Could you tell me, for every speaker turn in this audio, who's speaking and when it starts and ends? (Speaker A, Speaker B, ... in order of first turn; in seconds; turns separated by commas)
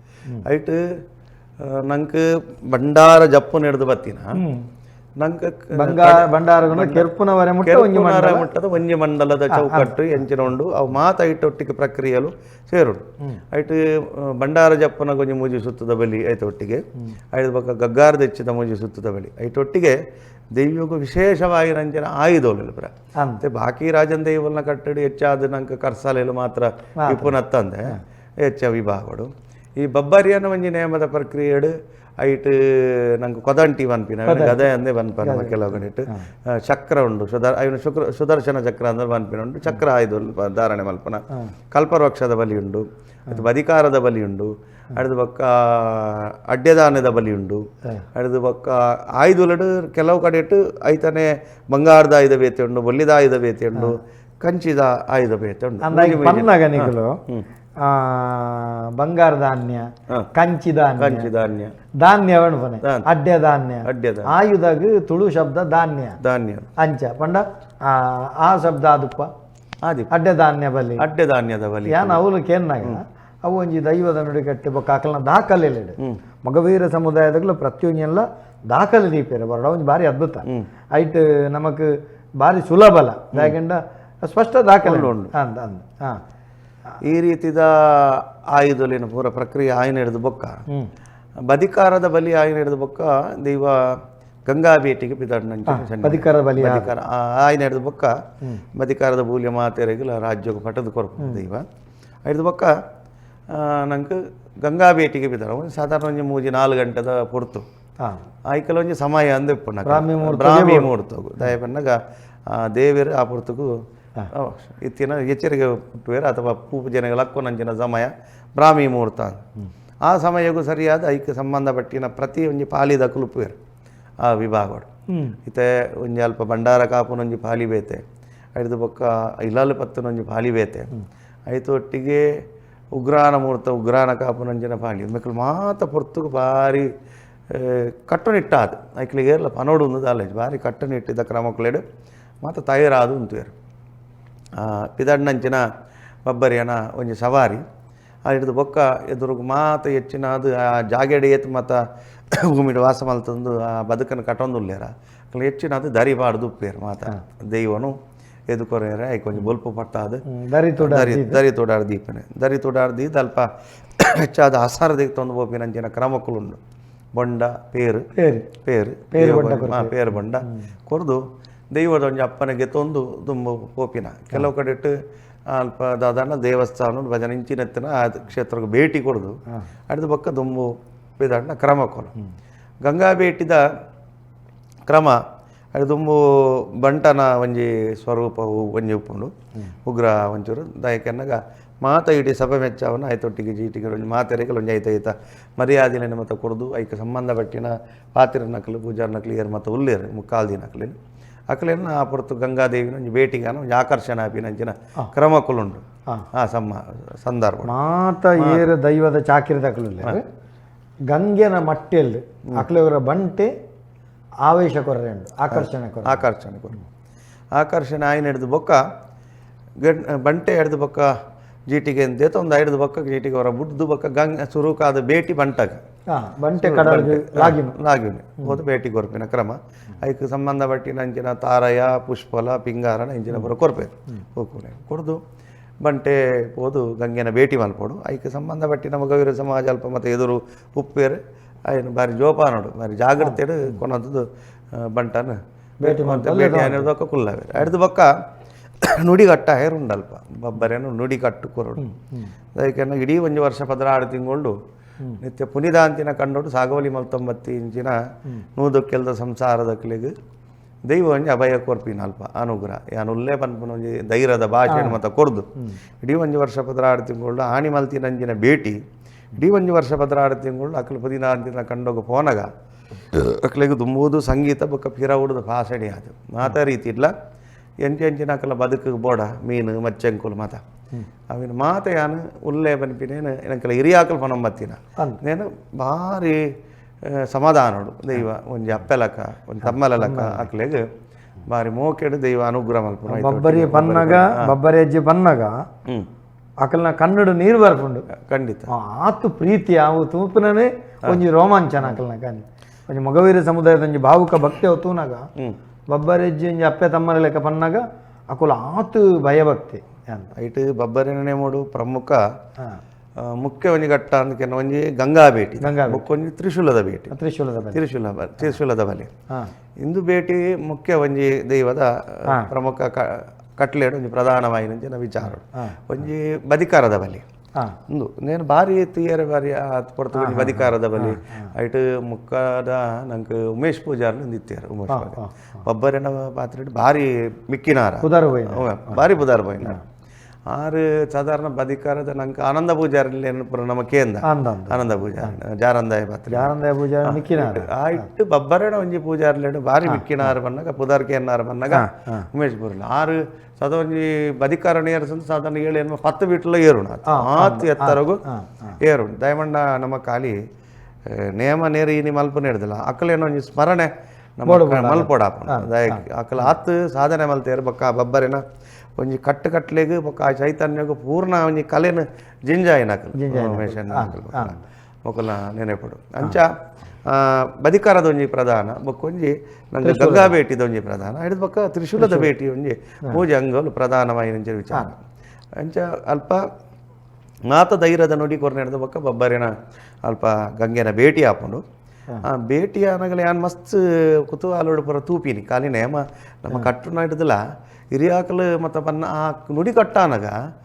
Speaker A: 0.4-0.8, Speaker A: 1.6-4.4, Speaker B: 4.3-4.7, Speaker A: 5.2-7.1, Speaker B: 5.7-8.5, Speaker A: 7.6-20.0, Speaker B: 9.5-10.0, Speaker A: 20.6-57.5, Speaker B: 23.1-23.4, Speaker B: 27.0-27.9, Speaker B: 34.2-34.7, Speaker B: 35.2-36.2, Speaker B: 55.8-57.2, Speaker B: 57.8-61.3, Speaker A: 61.0-61.7, Speaker B: 62.0-66.2, Speaker A: 63.8-64.3, Speaker A: 66.2-66.7, Speaker B: 66.8-69.3, Speaker A: 69.8-70.1, Speaker B: 70.1-71.0, Speaker A: 71.0-72.2, Speaker B: 71.9-81.9, Speaker B: 82.4-86.2, Speaker A: 84.8-85.3, Speaker A: 87.0-90.6, Speaker A: 91.5-98.1, Speaker B: 95.7-96.9, Speaker A: 98.7-101.6, Speaker A: 102.2-102.7, Speaker A: 103.5-107.6, Speaker B: 108.0-108.2, Speaker A: 108.5-112.0, Speaker B: 109.8-110.9, Speaker A: 112.5-113.7, Speaker A: 114.3-119.4, Speaker A: 120.0-123.5, Speaker A: 124.2-124.9, Speaker B: 125.1-125.4, Speaker A: 125.4-128.0, Speaker A: 128.6-130.9, Speaker A: 131.5-132.3, Speaker A: 132.9-136.9, Speaker A: 137.5-141.8, Speaker A: 142.4-143.5, Speaker A: 144.6-145.7, Speaker A: 146.2-147.6, Speaker A: 148.2-158.0, Speaker A: 158.5-160.2, Speaker B: 160.3-161.4, Speaker A: 160.8-163.5, Speaker A: 164.0-166.6, Speaker A: 167.1-175.0, Speaker B: 168.2-168.5, Speaker B: 169.1-170.6, Speaker A: 175.5-182.1, Speaker A: 182.8-183.6, Speaker A: 184.9-185.2, Speaker A: 185.7-189.3, Speaker A: 189.8-200.9, Speaker A: 201.5-207.7, Speaker B: 207.7-210.2, Speaker A: 208.4-208.7, Speaker B: 211.1-213.5, Speaker B: 214.4-216.2, Speaker A: 215.5-216.8, Speaker A: 217.6-218.8, Speaker A: 219.8-221.1, Speaker A: 221.7-225.8, Speaker B: 226.1-227.8, Speaker A: 226.6-235.2, Speaker A: 235.8-248.1, Speaker B: 243.2-243.8, Speaker B: 245.8-246.9, Speaker A: 248.8-251.9, Speaker B: 251.8-252.3, Speaker A: 252.5-254.6, Speaker A: 255.2-258.0, Speaker A: 258.6-260.1, Speaker A: 260.9-265.5, Speaker B: 264.7-265.0, Speaker A: 266.0-268.8, Speaker A: 269.3-272.5, Speaker A: 273.1-277.1, Speaker A: 277.8-280.6, Speaker A: 281.3-286.5, Speaker A: 287.1-290.9, Speaker B: 289.6-290.5, Speaker A: 291.4-294.5, Speaker B: 293.1-295.6, Speaker B: 296.6-298.1, Speaker A: 298.1-298.7, Speaker B: 298.7-305.3, Speaker B: 305.9-310.3, Speaker A: 310.3-312.2, Speaker A: 313.2-317.1, Speaker B: 315.6-316.0, Speaker B: 317.1-317.8, Speaker A: 317.7-319.1, Speaker A: 319.8-327.2, Speaker B: 325.4-325.8, Speaker A: 327.9-339.8, Speaker B: 330.1-331.5, Speaker B: 334.9-335.6, Speaker B: 338.0-339.1, Speaker A: 340.5-346.5, Speaker B: 344.2-345.4, Speaker B: 346.3-347.7, Speaker A: 347.0-358.2, Speaker B: 349.9-350.3, Speaker B: 351.7-352.3, Speaker B: 357.1-358.8, Speaker A: 358.8-360.4, Speaker A: 361.1-368.4, Speaker B: 364.4-366.5, Speaker A: 369.0-376.5, Speaker B: 373.1-374.6, Speaker A: 377.1-385.0, Speaker B: 379.8-380.4, Speaker B: 382.0-382.3, Speaker A: 385.6-386.4, Speaker A: 387.5-389.5, Speaker A: 390.0-391.6, Speaker A: 392.2-397.4, Speaker A: 397.9-400.4